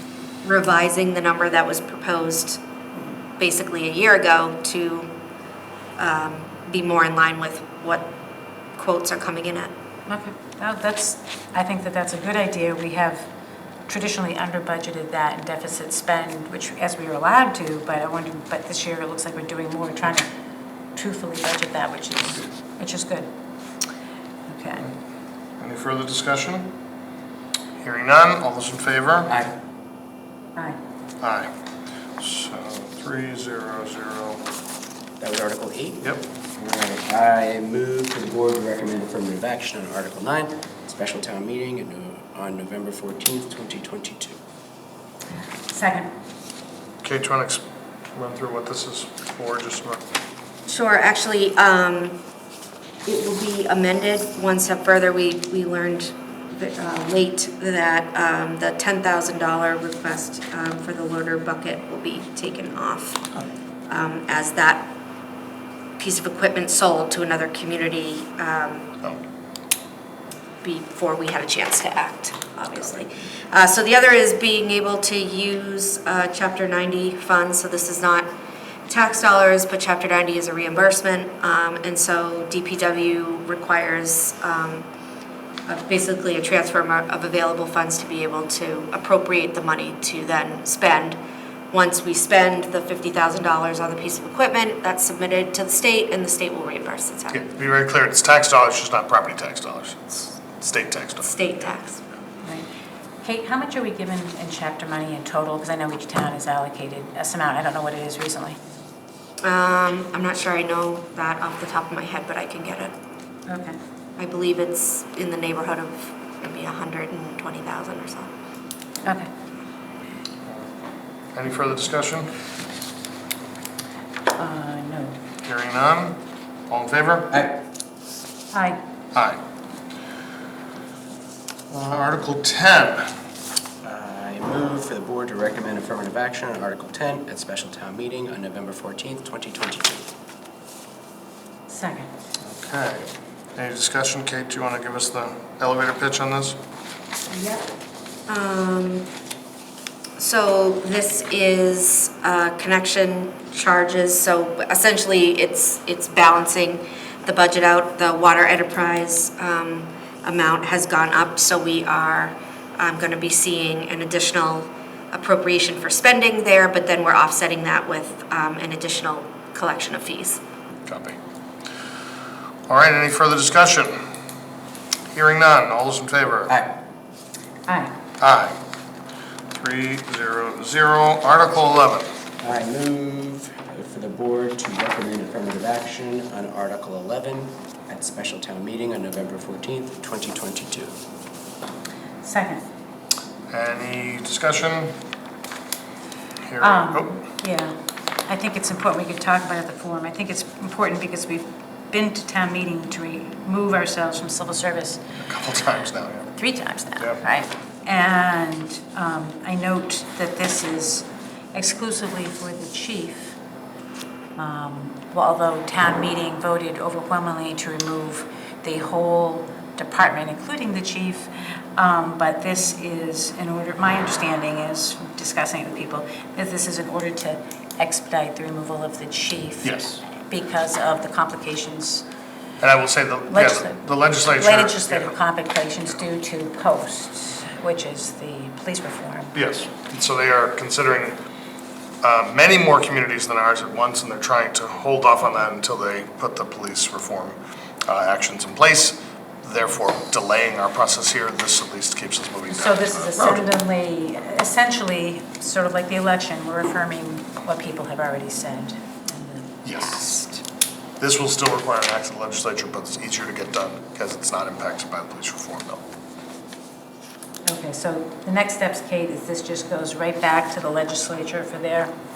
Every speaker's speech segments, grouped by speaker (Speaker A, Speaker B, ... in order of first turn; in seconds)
Speaker A: 0.4-2.6, 3.4-5.1, 6.0-8.1, 8.8-9.7, 50.6-52.2, 53.0-63.3, 63.9-64.9, 66.0-69.1, 70.6-78.3, 78.9-84.8, 85.7-91.2, 91.7-97.4, 101.2-102.0, 109.4-112.9, 114.2-118.3, 147.3-147.7, 148.3-149.1, 150.2-170.4
Speaker B: 10.1-13.3, 13.8-20.3, 20.9-23.3, 24.5-24.8, 45.7-46.1, 103.2-108.6, 113.5-113.8, 124.3-125.2, 128.5-128.8, 141.7-142.1, 177.7-177.9, 192.2-192.6, 196.6-205.0, 206.3-213.3, 214.3-229.7, 230.3-232.0, 233.3-233.8, 234.3-239.3, 252.5-260.4, 267.4-271.9
Speaker C: 25.6-26.7, 27.8-29.3, 31.2-31.5, 32.2-34.4, 47.0-50.0, 97.3-101.4, 121.3-122.3, 125.4-127.5, 129.1-129.4, 131.7-133.1, 142.4-146.6, 170.8-171.2, 172.7-174.0, 175.1-176.5, 178.2-178.6, 179.5-182.1, 193.5-194.9, 196.4-197.2, 205.2-206.3, 229.6-230.0, 232.6-235.1, 239.3-241.2, 242.0-253.4, 259.6-260.2, 261.0-265.8
Speaker D: 29.3-29.5, 35.2-36.0, 36.5-44.4, 133.8-140.1, 182.4-190.9